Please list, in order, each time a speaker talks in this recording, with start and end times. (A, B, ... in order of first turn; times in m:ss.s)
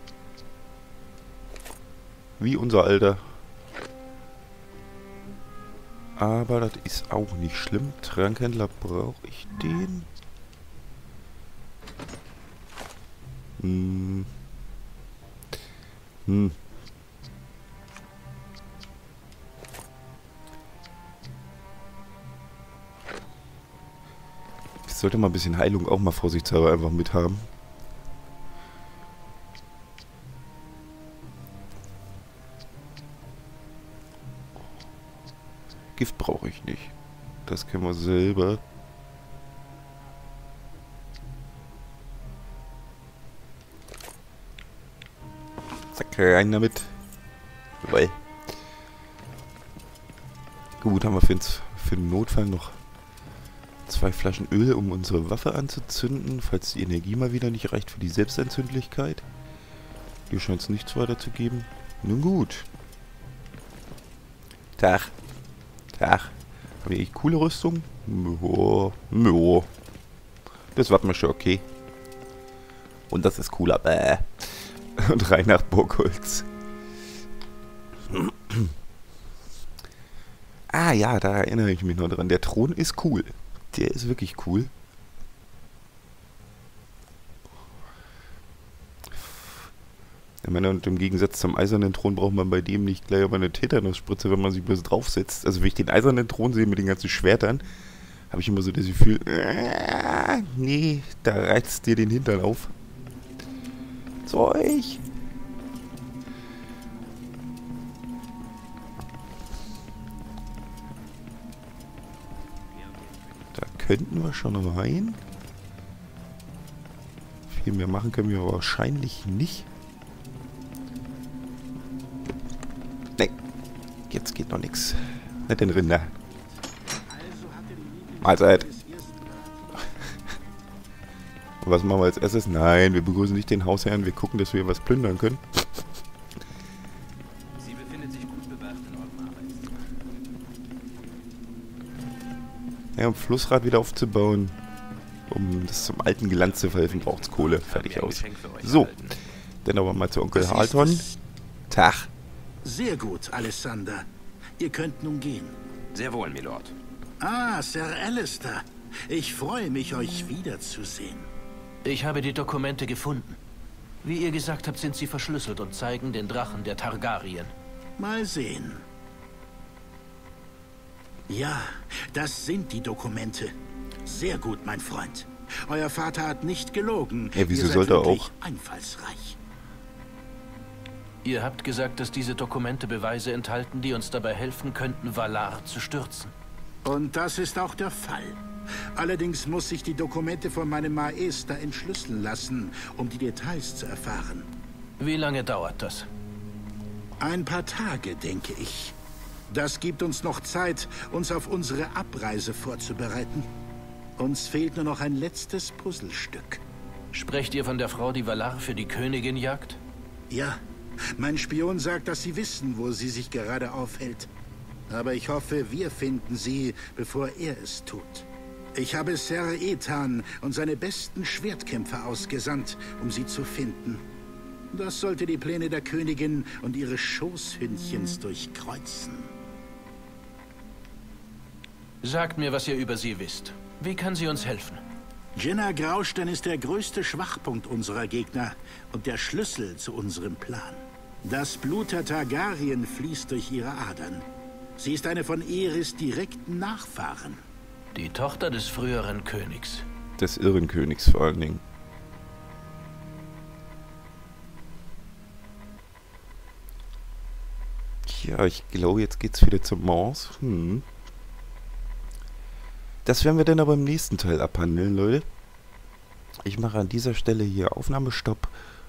0:02.4-0:03.2 A
0:06.2-0:10.1 A
0:13.6-0:14.3 A
0:16.2-0:16.6 A
0:24.8-0:27.5 A
0:36.0-0:36.9 A
0:37.4-0:38.6 A
0:45.9-0:46.9 A
0:47.8-0:48.2 A
0:50.8-0:52.8 A
0:53.9-0:59.2 A
1:00.3-1:02.7 A
1:04.8-1:05.1 A
1:05.9-1:09.7 A
1:10.7-1:11.6 A
1:13.1-1:16.5 A
1:18.1-1:18.7 A
1:20.7-1:24.7 A
1:30.4-1:37.6 A
1:38.3-1:42.7 A
1:44.2-1:45.0 A
1:53.5-1:55.2 A
1:57.5-1:59.7 A
2:04.1-2:06.1 A
2:07.0-2:09.9 B
2:08.2-2:08.6 A
2:11.6-2:15.6 A
2:17.6-2:19.7 C
2:23.0-2:24.6 A
2:25.3-2:29.1 A
2:26.4-2:29.1 C
2:29.6-2:31.1 A
2:30.3-2:31.2 B
2:31.7-2:32.1 A
2:32.6-2:34.0 B
2:34.6-2:35.5 B
2:35.9-2:36.7 C
2:37.2-2:41.3 B
2:41.8-2:43.4 D
2:44.0-2:47.5 D
2:48.0-2:48.8 B
2:51.3-2:53.5 B
2:54.0-2:59.4 B
2:57.4-2:58.3 A
3:01.2-3:06.3 D
3:06.8-3:08.4 B
3:08.9-3:14.5 B
3:15.0-3:16.1 D
3:17.2-3:19.0 B
3:19.5-3:23.5 B
3:24.2-3:26.6 B
3:27.1-3:29.8 D
3:30.3-3:30.6 B
3:31.2-3:34.3 B
3:34.9-3:44.0 B
3:44.7-3:49.3 B
3:52.0-3:54.8 D
3:55.4-4:04.2 B
4:04.8-4:07.4 B
4:07.9-4:09.8 D
4:10.2-4:11.6 A
4:18.0-4:20.8 A
4:23.0-4:25.2 A
4:26.4-4:28.5 A